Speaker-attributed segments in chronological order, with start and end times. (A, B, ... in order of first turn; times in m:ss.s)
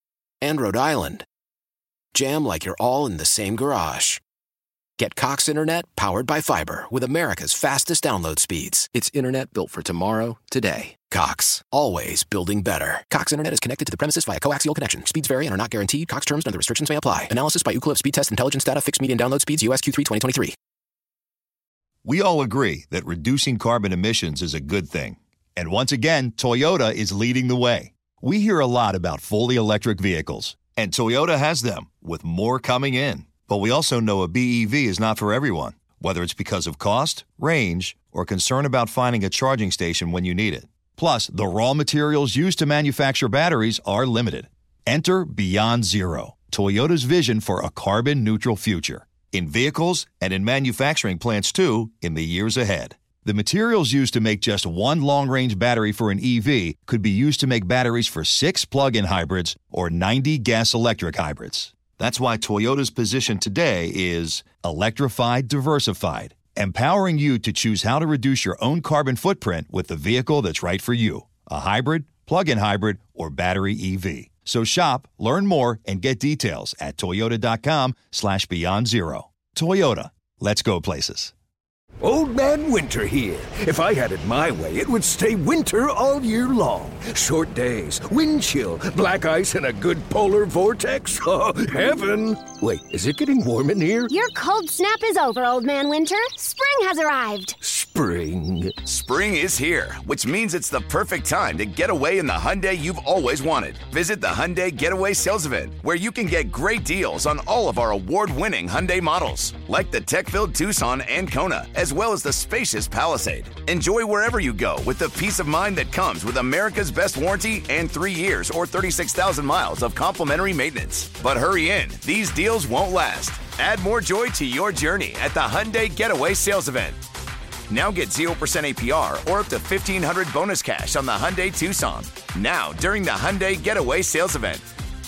0:00.4-0:01.2 A
0:02.1-0:04.2 A
0:05.0-0:20.6 A
0:22.0-1:21.3 B
1:22.0-1:34.1 C
1:34.1-1:37.6 D
1:37.6-1:38.8 C
1:38.8-2:07.0 E
2:07.7-2:14.6 E